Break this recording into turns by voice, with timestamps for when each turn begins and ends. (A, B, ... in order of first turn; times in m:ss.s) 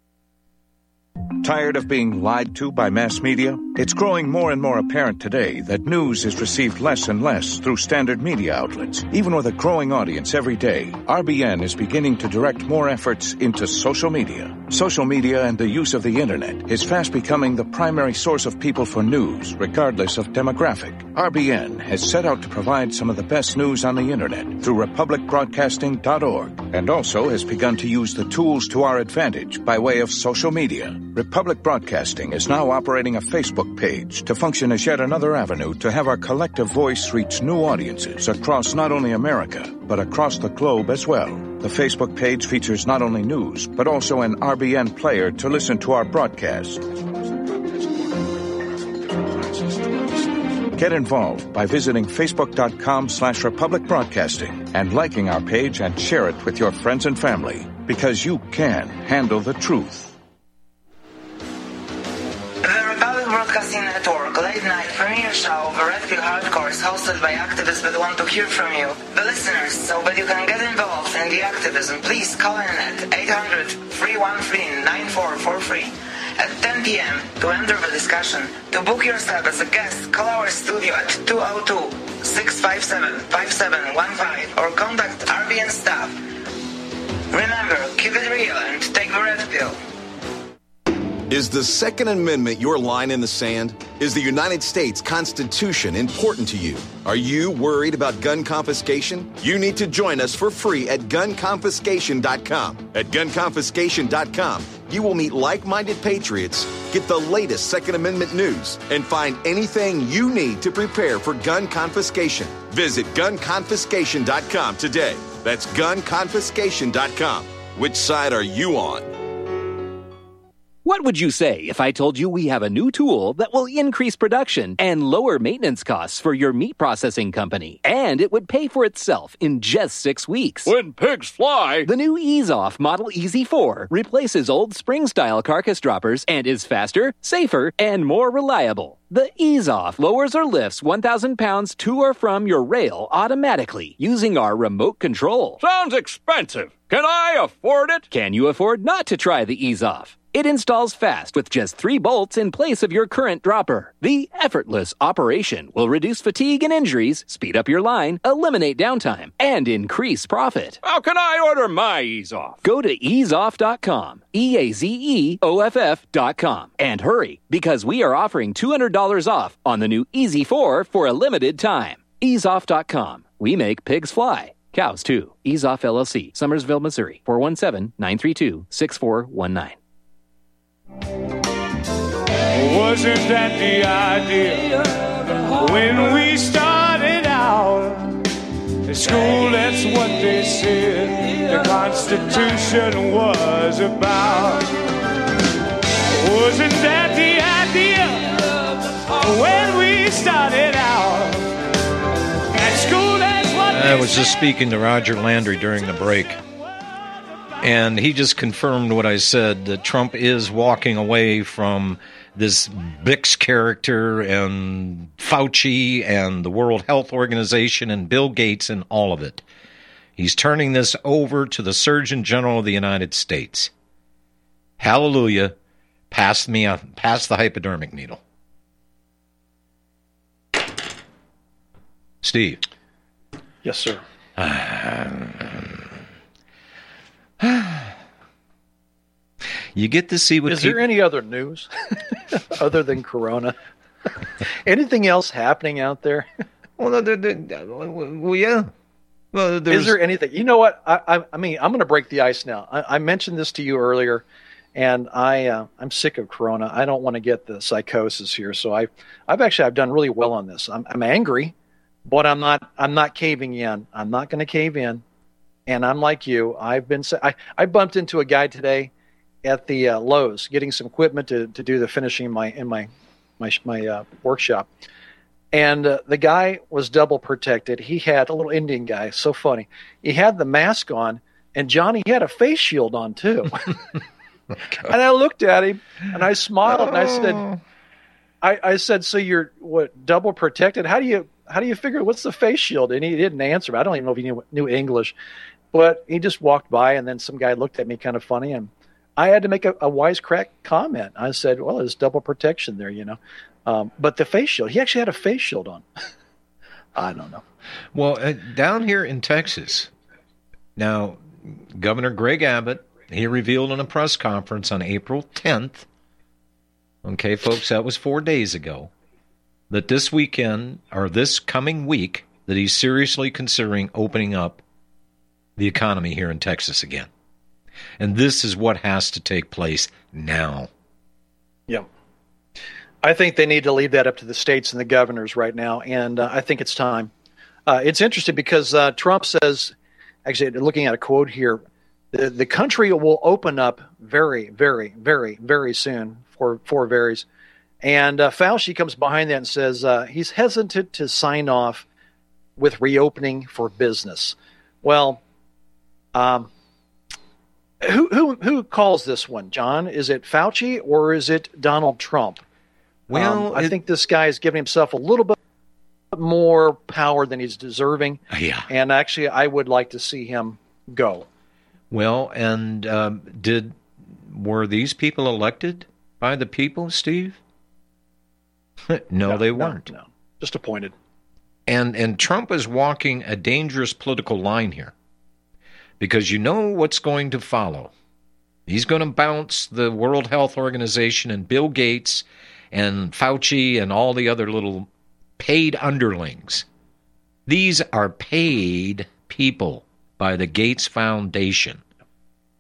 0:01.4-0:47.0 A
0:50.7-1:00.1 A
1:02.6-1:26.2 B
1:27.3-1:29.8 B
1:31.3-1:59.1 C
2:00.8-2:10.7 D
2:10.6-2:11.9 E
2:11.9-2:25.6 D
2:25.6-2:28.1 E
2:28.1-2:40.8 D
2:40.8-2:42.6 E
2:42.6-2:59.8 D
3:02.5-3:08.2 F
3:08.9-3:14.9 F
3:16.2-3:21.5 F
3:22.5-3:24.2 F
3:23.7-3:26.4 G
3:27.6-3:39.4 G
3:40.2-3:43.7 G
3:44.8-3:45.6 G
3:46.1-3:48.2 G
3:52.2-3:52.6 G
3:53.6-3:54.0 H
3:54.4-3:55.9 G
3:57.4-3:57.9 G
3:59.8-4:00.8 G
4:00.5-4:01.7 H
4:02.4-4:03.6 H
4:04.6-4:06.3 H
4:06.8-4:08.7 G
4:09.3-4:10.0 G
4:09.7-4:14.2 H
4:14.8-4:21.5 H
4:22.1-4:25.0 H
4:25.7-4:28.9 H
4:29.4-4:32.9 H
4:33.4-4:34.7 H
4:35.5-4:43.7 H
4:44.8-4:47.5 H
4:46.7-4:47.6 G
4:48.4-4:55.1 H
4:55.7-5:05.8 H
5:07.0-5:07.4 H
5:07.9-5:09.9 G
5:10.8-5:15.9 G
5:17.0-5:18.9 G
5:19.7-5:24.6 G
5:25.6-5:27.1 G
5:28.0-5:30.7 G
5:33.0-5:37.1 H
5:37.7-5:39.8 H
5:40.3-5:47.3 H
5:47.8-5:51.9 H
5:52.6-5:55.2 H
5:56.2-5:56.5 H
5:57.8-6:02.4 H
6:03.1-6:03.7 G
6:03.1-6:05.4 H
6:06.1-6:11.3 H
6:08.3-6:08.7 G
6:11.9-6:17.4 G
6:18.9-6:19.9 G
6:19.3-6:20.9 H
6:21.7-6:24.9 G
6:26.0-6:27.9 G
6:28.7-6:34.9 G
6:35.4-6:36.6 G
6:37.5-6:41.8 G